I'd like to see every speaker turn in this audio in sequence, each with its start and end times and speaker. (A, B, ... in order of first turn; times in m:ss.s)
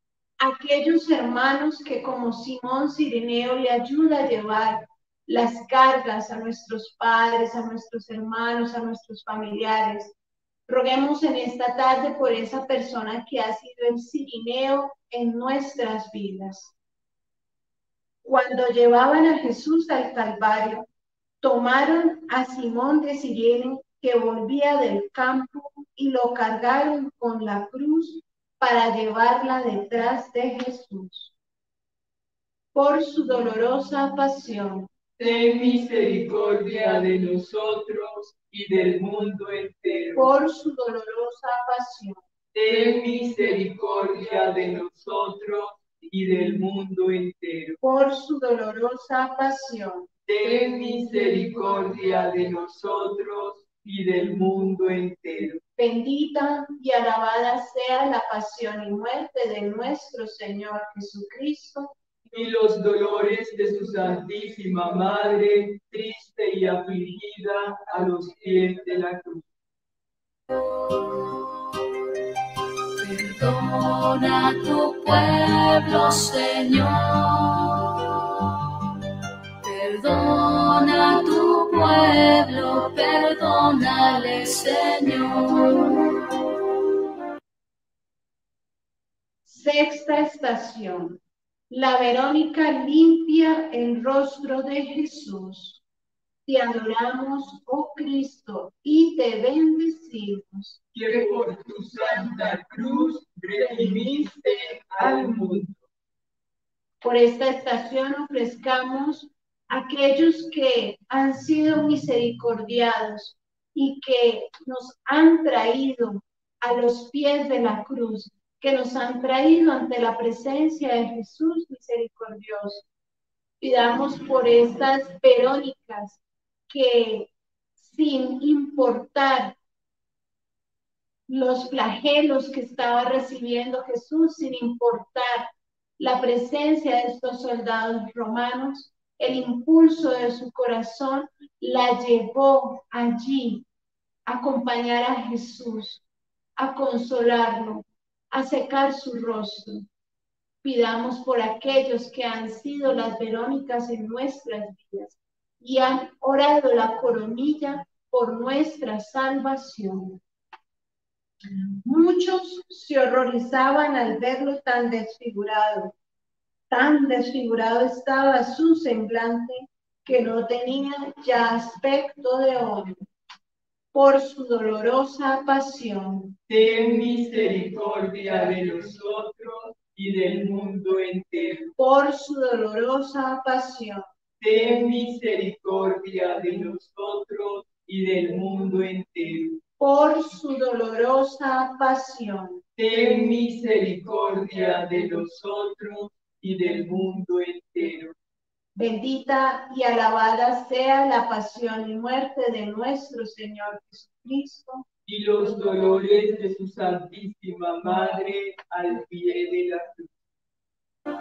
0:00.4-0:10.1 A
0:10.7-0:16.7 A
0:18.2-0:20.8 A
0:21.4-0:31.3 A
0:32.7-0:34.9 A
0:35.2-0:40.3 B
0:40.1-0:42.2 A
0:42.5-0:47.8 B
0:47.8-0:50.1 A
0:50.2-0:55.6 B
0:55.8-1:01.9 A
1:02.3-1:09.5 B
1:13.0-1:18.6 C
1:19.6-1:26.2 C
1:29.4-1:35.8 A
1:36.4-1:40.8 A
1:40.9-1:45.8 B
1:41.9-1:42.7 A
1:43.6-1:45.6 A
1:47.0-2:02.8 A
2:03.6-2:09.6 A
2:11.3-2:23.6 A
2:24.3-2:26.0 A
2:26.6-2:29.9 A
2:30.6-2:40.2 A
2:41.8-2:45.9 A
2:46.7-2:52.9 A
2:53.9-2:56.4 A
2:56.5-3:01.7 B
3:01.8-3:04.0 A
3:04.4-3:09.6 B
3:09.8-3:12.6 A
3:12.8-3:18.1 B
3:18.7-3:24.8 A
3:25.1-3:30.1 B